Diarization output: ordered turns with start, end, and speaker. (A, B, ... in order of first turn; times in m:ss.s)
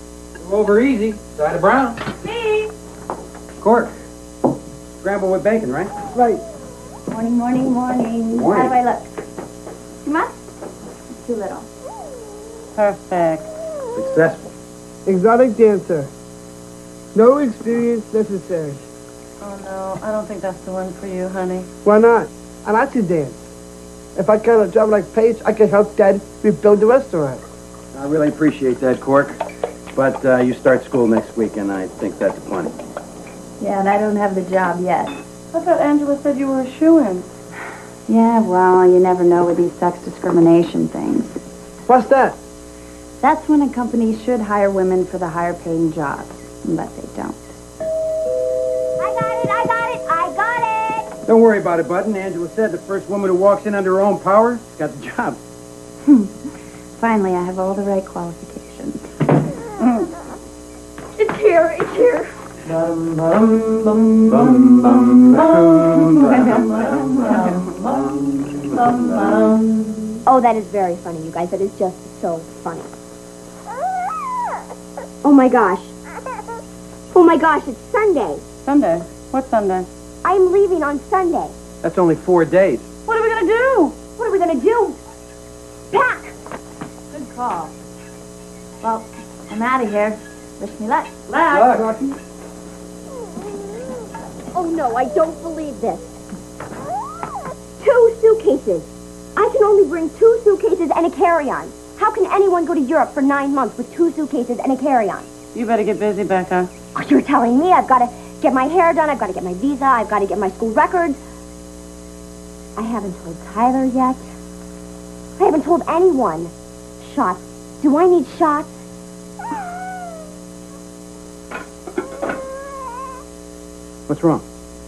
0:00.4-0:02.0 A
0:03.6-0:03.9 A
0:05.0-0:05.9 A
0:06.2-0:06.4 B
0:07.1-0:09.0 C
0:08.3-0:08.8 A
0:11.2-0:11.7 C
0:12.8-0:13.6 D
0:14.0-0:14.5 A
0:15.1-0:16.1 B
0:17.2-0:18.8 B
0:19.4-0:21.7 D
0:21.8-0:23.4 B
0:24.2-0:27.4 B
0:27.9-0:29.4 A
0:30.0-0:32.7 A
0:33.6-0:35.2 C
0:35.5-0:37.3 D
0:38.1-0:41.4 C
0:41.9-0:42.4 B
0:43.2-0:47.5 C
0:49.0-0:51.1 E
0:51.3-0:55.4 A
0:57.0-0:59.1 C
1:01.2-1:02.3 E
1:02.9-1:03.6 A
1:04.2-1:07.4 A
1:05.4-1:08.1 D
1:08.1-1:09.3 A
1:08.7-1:10.2 D
1:10.3-1:12.9 E
1:15.2-1:15.9 E
1:17.1-1:18.4 E
1:18.7-1:19.9 D
1:20.2-1:21.6 E
1:21.8-1:22.9 A
1:23.1-1:24.0 D
1:24.2-1:25.0 E
1:25.9-1:26.4 E
1:27.1-1:27.7 C
1:28.8-1:31.8 C
1:31.5-1:32.1 A
1:34.5-1:36.1 E
1:37.8-1:45.3 E
1:45.6-1:46.7 D
1:47.0-1:51.2 E
1:52.8-1:54.2 E
1:55.4-1:58.7 E
2:04.1-2:04.4 A